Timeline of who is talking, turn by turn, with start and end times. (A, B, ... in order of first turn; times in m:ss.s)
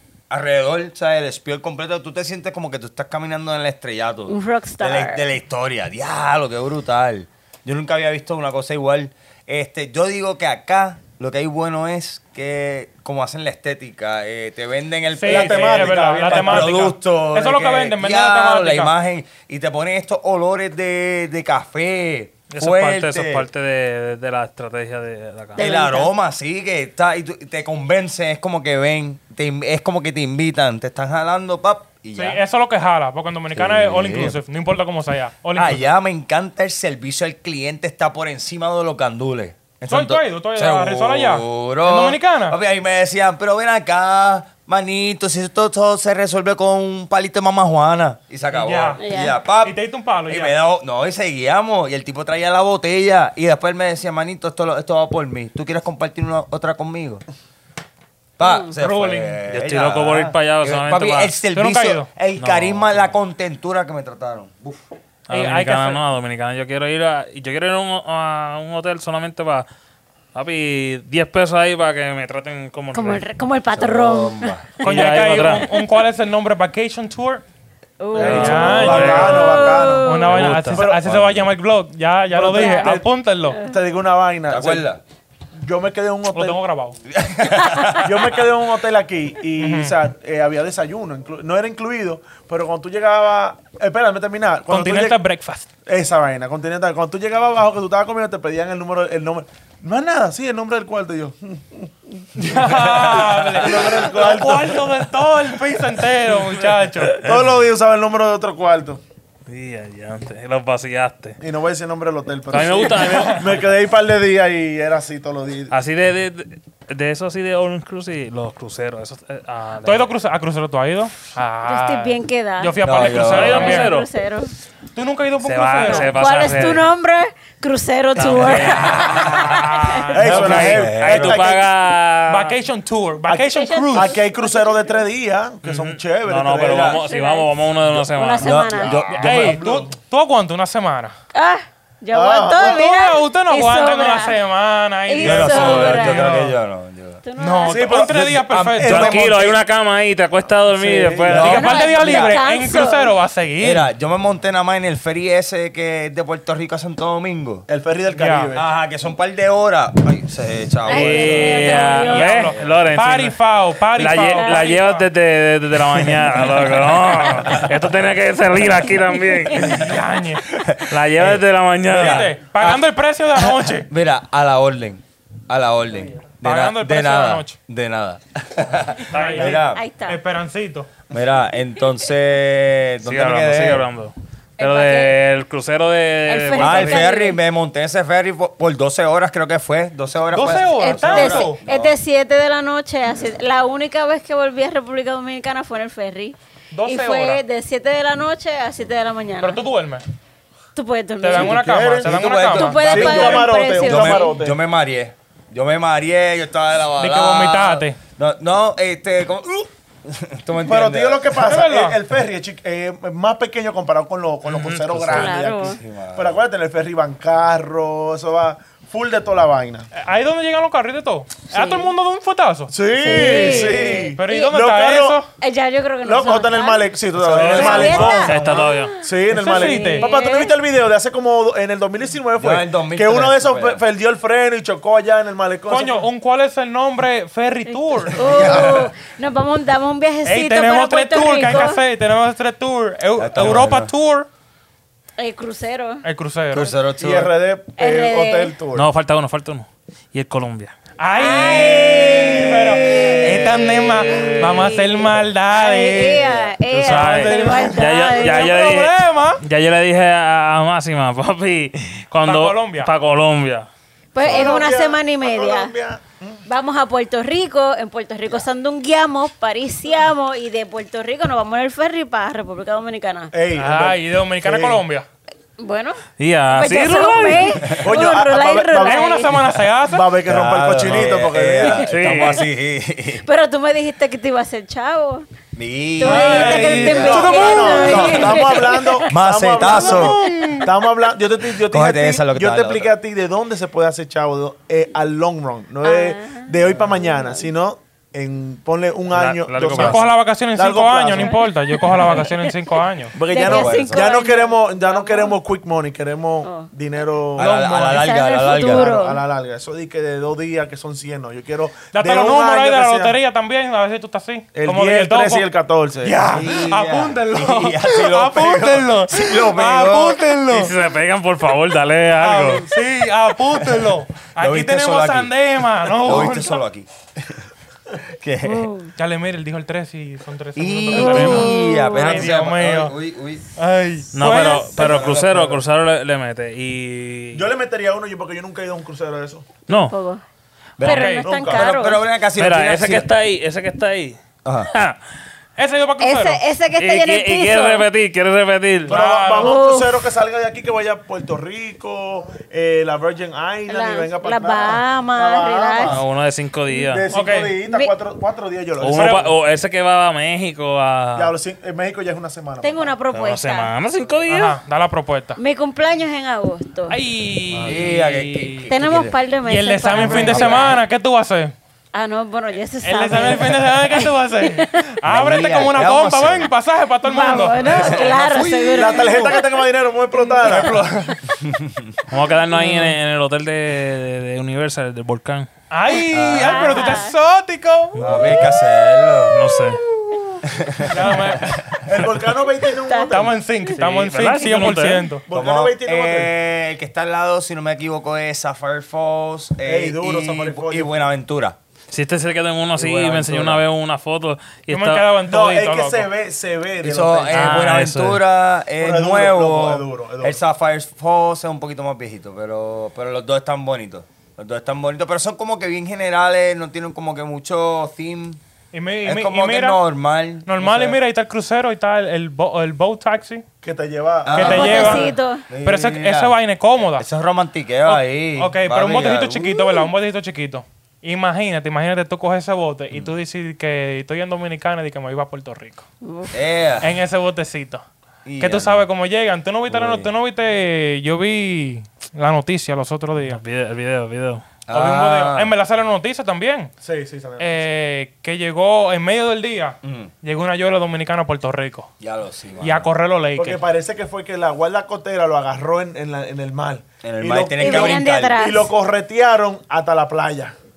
0:00.3-0:23.5 A
0:04.3-0:05.2 B
0:15.2-0:18.9 C
0:15.2-0:16.8 D
0:22.5-0:25.6 E
0:25.6-0:26.1 B
0:25.6-0:32.4 A
0:32.2-0:35.8 C
0:33.5-0:34.4 A
0:35.6-0:57.2 A
0:39.9-0:42.6 C
0:48.5-0:49.0 C
0:49.0-0:49.4 B
0:49.6-0:50.5 C
0:58.4-1:04.8 A
0:58.4-0:58.7 B
0:58.8-0:59.4 C
0:59.5-1:01.4 E
1:01.5-1:02.1 C
1:02.4-1:03.1 E
1:05.3-1:09.7 E
1:05.3-1:06.0 C
1:10.3-1:13.2 E
1:12.9-1:14.6 B
1:13.8-1:14.7 A
1:14.8-1:15.7 E
1:14.8-1:17.4 C
1:18.0-1:20.5 B
1:18.2-1:20.2 D
1:18.2-1:18.8 A
1:18.2-1:23.6 C
1:18.2-1:19.7 E
1:20.3-1:20.8 E
1:20.7-1:21.0 D
1:21.0-1:21.5 A
1:22.3-1:23.1 D
1:22.6-1:23.8 B
1:23.6-1:24.9 D
1:24.5-1:25.0 A
1:25.6-1:26.6 D
1:26.3-1:27.0 C
1:27.1-1:28.4 A
1:27.6-1:28.0 B
1:28.0-1:35.2 D
1:29.6-1:30.0 C
1:34.7-1:35.7 C
1:35.9-1:44.8 D
1:42.4-1:47.2 C
1:47.1-1:49.0 D
1:49.5-1:51.4 E
1:51.4-1:55.7 D
1:52.5-1:53.7 E
1:53.1-1:53.4 C
1:55.7-2:00.1 E
1:59.8-2:04.0 C
2:01.6-2:04.5 B
2:02.8-2:03.7 A
2:03.3-2:04.1 E
2:05.0-2:06.2 C
2:05.4-2:06.9 E
2:05.8-2:10.1 B
2:08.2-2:12.6 E
2:08.3-2:10.8 C
2:10.1-2:11.7 D
2:10.2-2:11.5 A
2:12.3-2:14.2 C
2:13.3-2:17.0 D
2:13.5-2:15.0 B
2:15.6-2:18.7 E
2:16.6-2:17.0 A
2:16.8-2:19.0 B
2:18.4-2:19.6 A
2:18.9-2:19.9 D
2:19.1-2:21.2 C
2:21.3-2:24.4 B
2:22.1-2:22.8 D
2:22.6-2:26.6 C
2:25.1-2:26.4 B
2:25.2-2:27.2 A
2:27.2-2:28.1 B
2:27.4-2:29.1 C
2:27.6-2:29.6 D
2:28.1-2:29.3 A
2:28.8-2:31.8 E
2:30.7-2:31.7 D
2:31.2-2:32.4 A
2:31.3-2:33.9 C
2:31.5-2:33.1 B
2:33.6-2:37.7 A
2:37.7-2:38.7 D
2:38.1-2:38.5 C
2:38.6-2:41.8 A
2:40.9-2:42.5 B
2:40.9-2:43.4 E
2:41.7-2:45.1 C
2:42.5-2:42.8 A
2:44.0-2:49.9 E
2:44.3-2:44.8 B
2:49.6-2:50.4 C
2:50.5-2:52.8 A
2:50.9-2:52.3 E
2:51.9-2:53.9 C
2:53.4-2:59.8 A
2:56.4-2:57.6 C
2:59.1-2:59.6 E
2:59.1-3:00.9 C
2:59.5-3:00.2 B
3:01.1-3:03.9 A
3:03.0-3:07.1 E
3:04.6-3:05.2 B
3:06.3-3:07.4 B
3:06.6-3:12.0 A
3:10.3-3:11.6 C
3:10.8-3:19.6 B
3:16.7-3:17.4 C
3:19.4-3:20.0 C
3:20.8-3:21.6 B
3:21.2-3:23.5 C
3:21.3-3:22.2 D
3:22.0-3:31.5 A
3:22.5-3:24.4 B
3:22.8-3:24.6 D
3:27.0-3:28.0 C
3:30.6-3:39.9 D
3:31.4-3:32.0 C
3:34.5-3:35.3 E
3:35.1-3:35.8 B
3:35.6-3:36.4 A
3:39.9-3:42.7 C
3:41.5-3:41.9 B
3:42.7-3:45.2 D
3:43.0-3:44.5 B
3:43.2-3:44.1 A
3:44.2-3:45.3 C
3:45.4-3:50.5 B
3:46.0-3:56.1 D
3:47.2-3:48.0 A
3:47.4-3:49.0 E
3:47.6-3:48.1 C
3:49.3-3:50.1 C
3:52.4-3:53.8 A
3:55.7-3:58.4 C
3:57.7-4:01.8 B
3:58.2-3:58.9 A
4:00.2-4:04.3 C
4:03.2-4:03.9 A
4:05.2-4:06.0 B
4:06.0-4:06.7 C
4:06.5-4:07.3 A
4:07.0-4:08.9 D
4:07.8-4:08.5 B
4:08.7-4:10.7 E
4:11.0-4:19.4 C
4:11.2-4:13.5 B
4:12.9-4:14.2 A
4:14.1-4:18.6 B
4:16.7-4:23.7 E
4:22.2-4:22.9 C
4:24.1-4:25.7 B
4:24.2-4:26.4 D
4:26.5-4:33.3 B
4:33.3-4:34.8 D
4:33.6-4:35.1 C
4:35.6-4:39.4 B
4:36.2-4:37.7 E
4:37.8-4:39.2 D
4:38.8-4:40.2 C
4:39.8-4:41.9 D
4:40.3-4:43.2 A
4:41.6-4:42.4 B
4:41.9-4:42.4 E
4:43.2-4:45.3 B
4:45.6-4:47.4 A
4:46.0-4:49.1 B
4:46.0-4:48.6 C
4:46.3-5:01.4 D
4:49.1-4:50.3 A
4:49.6-4:50.7 C
4:51.6-4:52.9 A
4:55.8-4:57.5 B
4:59.1-5:00.1 E
4:59.7-5:03.2 C
5:01.2-5:02.5 B
5:03.1-5:07.7 D
5:03.3-5:05.4 B
5:03.4-5:04.1 A
5:06.4-5:06.7 B
5:07.4-5:08.9 A
5:07.4-5:08.0 C
5:07.8-5:09.2 B
5:08.6-5:13.2 D
5:11.9-5:15.5 C
5:14.5-5:16.3 D
5:16.0-5:20.7 C
5:16.3-5:20.2 A
5:20.5-5:22.7 E
5:22.2-5:26.6 C
5:23.6-5:25.3 A
5:25.9-5:27.5 A
5:28.1-5:28.7 A
5:28.4-5:28.9 B
5:29.0-5:32.9 C
5:30.6-5:33.4 A
5:30.9-5:32.3 B
5:33.6-5:34.8 C
5:34.1-5:37.5 E
5:34.8-5:35.6 D
5:34.8-5:35.5 A
5:37.3-5:39.5 D
5:39.7-5:39.9 E
5:39.8-5:40.2 B
5:40.8-5:43.1 A
5:40.8-5:42.0 B
5:40.8-5:41.3 C
5:41.2-5:41.8 D
5:42.4-5:44.2 E
5:44.4-5:44.7 A
5:44.7-5:45.0 E
5:45.6-5:46.4 C
5:46.0-5:47.9 B
5:46.8-5:49.0 E
5:48.9-5:49.6 C
5:48.9-5:56.1 D
5:49.4-5:50.0 B
5:53.7-5:56.0 B
5:55.8-5:57.1 E
5:56.7-5:57.0 B
5:56.9-5:59.3 D
5:57.1-5:57.6 C
5:57.6-5:57.9 B
5:58.8-6:01.4 E
5:58.9-5:59.3 C
6:01.2-6:03.0 D
6:02.6-6:03.7 B
6:03.1-6:04.6 E
6:04.3-6:05.4 C
6:05.4-6:07.0 B
6:06.9-6:08.7 C
6:07.6-6:08.0 E
6:07.6-6:09.2 A
6:08.7-6:10.8 B
6:09.4-6:11.5 C
6:10.0-6:10.7 A
6:11.9-6:14.8 B
6:12.8-6:18.1 C
6:15.1-6:16.5 A
6:17.0-6:20.7 B
6:17.6-6:19.3 A
6:18.7-6:20.8 D
6:20.4-6:21.2 C
6:21.4-6:22.0 A
6:22.1-6:25.5 E
6:25.7-6:28.0 C
6:26.1-6:26.7 A
6:26.3-6:27.1 B
6:28.0-6:28.3 E
6:28.0-6:29.6 A
6:29.3-6:29.8 E
6:30.5-6:31.7 A
6:30.8-6:31.6 C
6:31.8-6:33.4 D
6:32.9-6:33.2 B
6:33.1-6:35.2 C
6:33.7-6:35.1 E
6:35.3-6:36.3 D
6:35.3-6:41.6 A
6:39.6-6:40.9 D
6:41.9-6:45.1 E
6:42.8-6:43.6 A
6:44.7-6:46.1 C
6:45.2-6:47.7 D
6:46.8-6:58.4 A
6:47.3-6:48.2 E
6:48.8-6:50.4 D
6:58.7-6:59.8 C
6:59.0-7:01.0 A
7:00.4-7:03.4 C
7:03.6-7:04.7 D
7:04.2-7:06.4 A
7:04.3-7:07.1 C
7:04.4-7:05.4 B
7:07.0-7:09.6 A
7:07.9-7:15.8 C
7:16.0-7:16.3 B
7:16.3-7:17.0 A
7:16.8-7:17.8 C
7:18.2-7:18.8 A
7:18.4-7:23.4 C
7:19.7-7:20.1 A
7:23.2-7:24.6 E
7:24.7-7:25.5 A
7:24.7-7:26.7 C
7:26.8-7:27.6 D
7:27.4-7:31.9 C
7:29.8-7:30.1 A
7:32.0-7:32.9 A
7:32.6-7:33.6 C
7:33.4-7:40.6 D
7:37.0-7:38.4 A
7:37.6-7:38.7 B